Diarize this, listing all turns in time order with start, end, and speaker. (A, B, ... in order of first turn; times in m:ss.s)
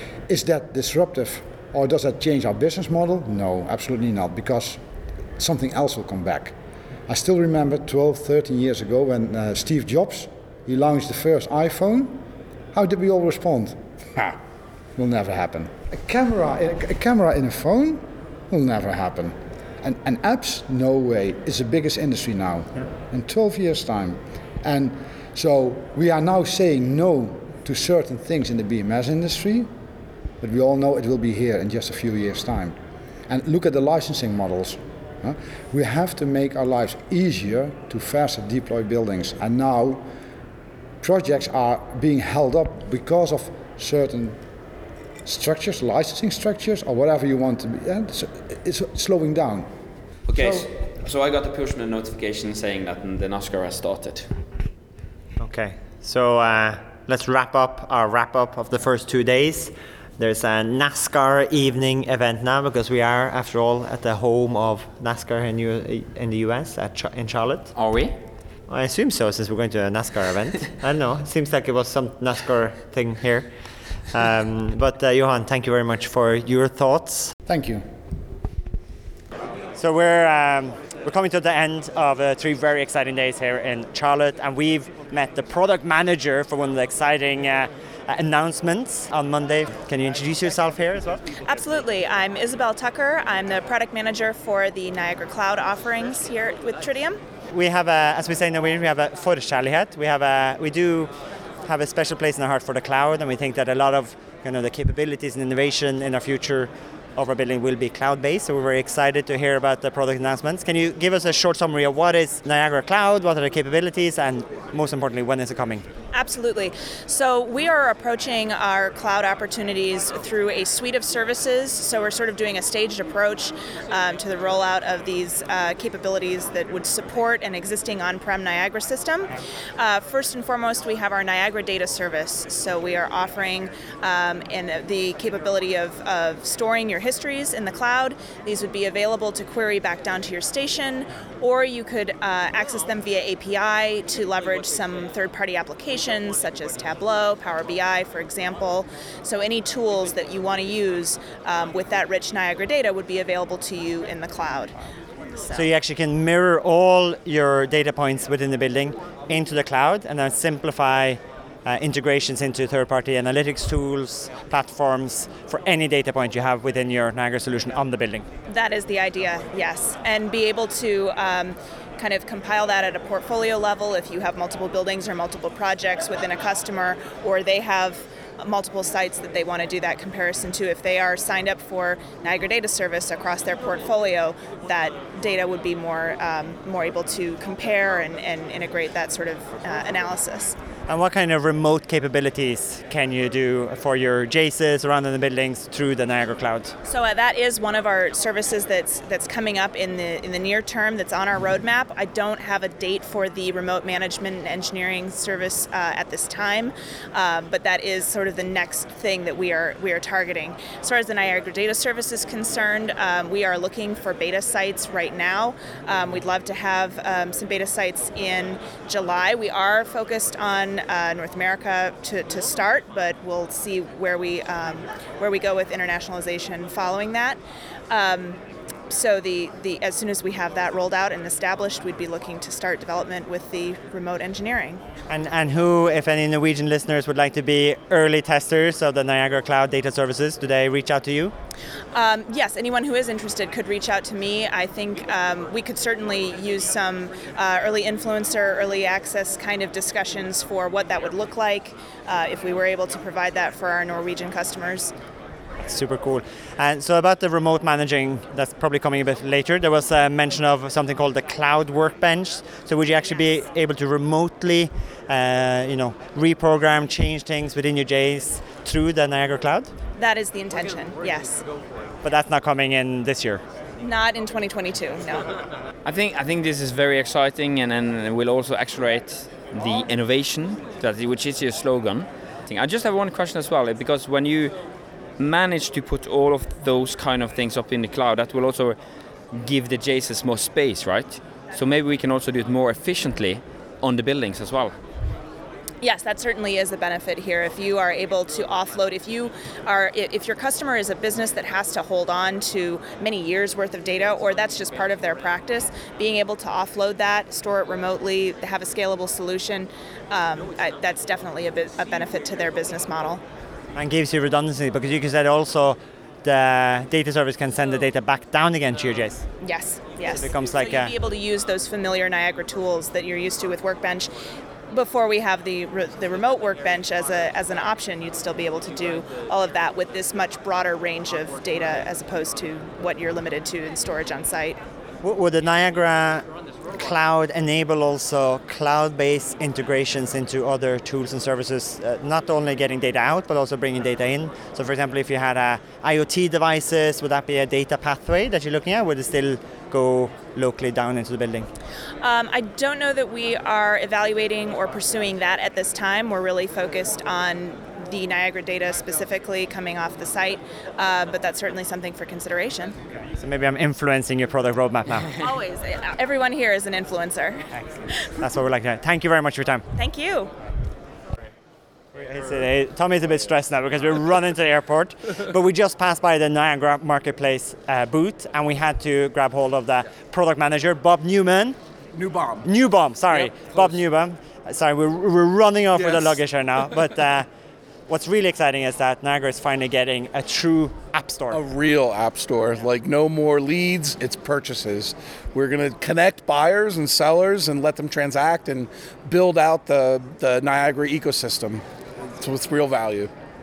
0:00.3-0:04.8 A
0:05.4-0:06.6 A
0:07.1-0:12.2 A
0:12.7-0:14.4 A
0:15.0-0:29.7 A
0:30.4-0:32.8 A
0:33.3-0:40.1 A
0:41.0-0:44.4 A
0:45.2-0:49.7 A
0:50.3-0:54.3 B
0:50.4-0:50.7 A
0:55.4-1:07.7 C
1:07.7-1:08.2 B
1:08.7-1:13.5 C
1:14.1-1:17.3 C
1:17.4-1:17.9 A
1:19.7-1:31.4 C
1:31.4-1:37.2 D
1:37.5-1:41.1 C
1:41.6-1:55.8 C
1:56.1-2:34.7 D
2:35.4-2:35.7 D
2:35.5-2:48.3 C
2:48.5-3:10.6 D
3:10.9-3:16.8 C
3:16.9-3:47.4 D
3:47.9-3:54.8 D
3:55.1-4:01.3 C
4:01.9-4:14.9 D
4:15.6-4:29.7 C
4:30.0-4:31.4 D
4:32.0-4:33.4 C
4:33.8-4:35.3 D
4:35.8-4:44.5 B
4:45.2-4:48.8 B
4:49.3-4:54.7 B
4:55.8-5:13.2 D
5:13.8-5:19.3 C
5:19.4-5:24.1 D
5:20.1-5:20.9 C
5:24.7-5:34.6 D
5:35.0-5:51.5 C
5:52.0-6:02.8 D
6:03.2-6:05.1 C
6:05.1-6:07.5 D
6:07.6-6:09.6 C
6:09.7-6:10.3 D
6:11.9-6:21.6 C
6:21.9-6:22.5 E
6:22.4-6:27.3 C
6:23.2-6:23.8 E
6:25.7-6:26.2 E
6:27.9-6:31.4 C
6:31.3-6:41.6 E
6:42.2-6:43.1 E